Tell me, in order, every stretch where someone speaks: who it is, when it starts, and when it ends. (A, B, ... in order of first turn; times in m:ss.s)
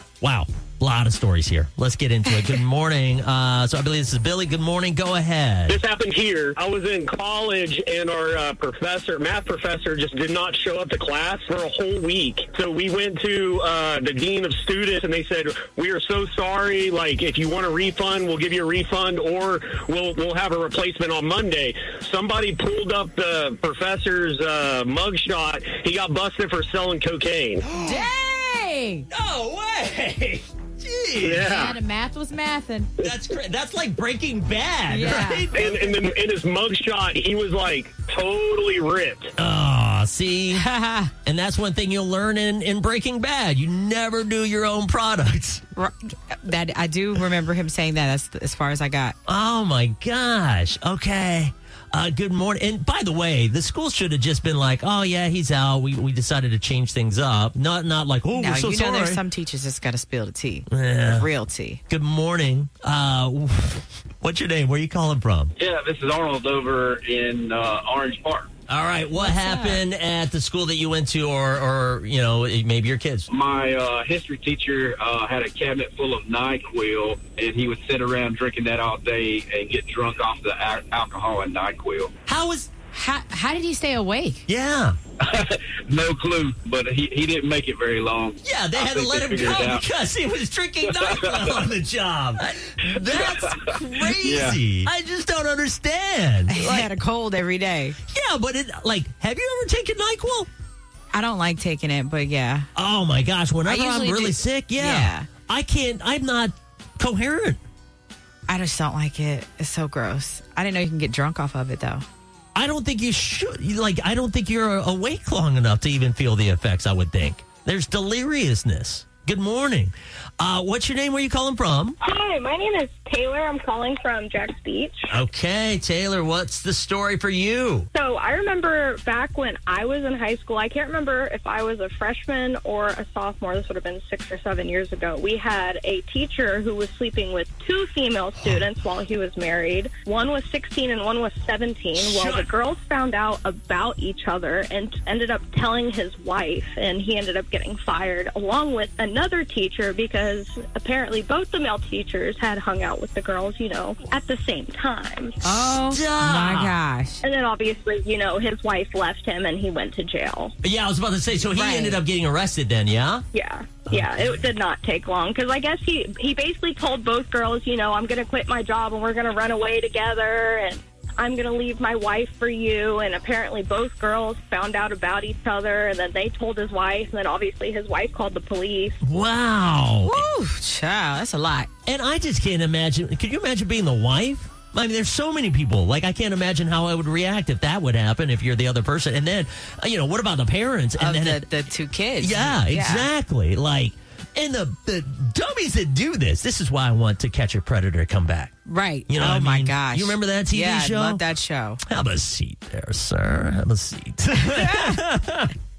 0:00.2-0:05.8 A
0:05.7-0:27.6 B
0:27.7-0:28.1 A
0:27.8-0:29.1 C
0:29.1-0:31.5 A
0:31.2-0:31.7 B
0:31.3-0:32.9 C
0:33.0-0:36.2 A
0:34.9-0:35.5 C
0:35.5-0:39.3 B
0:39.4-0:40.6 A
0:40.6-0:41.1 C
0:41.2-0:45.6 A
0:45.8-0:49.2 C
0:49.3-0:59.2 A
0:58.3-1:01.8 C
1:00.7-1:01.3 A
1:01.9-1:05.5 A
1:05.6-1:08.4 D
1:08.7-1:13.3 A
1:09.1-1:09.8 C
1:13.3-1:22.1 D
1:22.3-1:22.7 A
1:22.9-1:24.5 C
1:24.5-1:24.9 A
1:26.0-1:29.8 D
1:28.4-1:36.9 A
1:34.2-1:34.6 D
1:36.5-1:38.0 C
1:38.1-1:40.5 A
1:41.1-1:42.7 C
1:42.8-1:47.6 A
1:43.7-1:45.3 C
1:48.5-1:52.0 C
1:52.6-2:02.0 A
2:02.0-2:05.1 E
2:05.1-2:07.9 A
2:07.9-2:35.4 E
2:22.0-2:22.5 A
2:35.4-2:37.2 C
2:35.5-2:36.8 A
2:37.2-2:40.5 E
2:40.6-2:43.2 A
2:41.5-2:42.0 C
2:43.3-2:59.0 E
2:43.9-2:44.4 A
2:59.0-3:00.2 A
3:00.0-3:01.7 C
3:01.9-3:11.4 A
3:11.0-3:13.1 C
3:12.2-3:18.5 A
3:18.7-3:21.8 C
3:19.1-3:21.2 A
3:21.9-3:25.5 A
3:24.5-3:25.0 C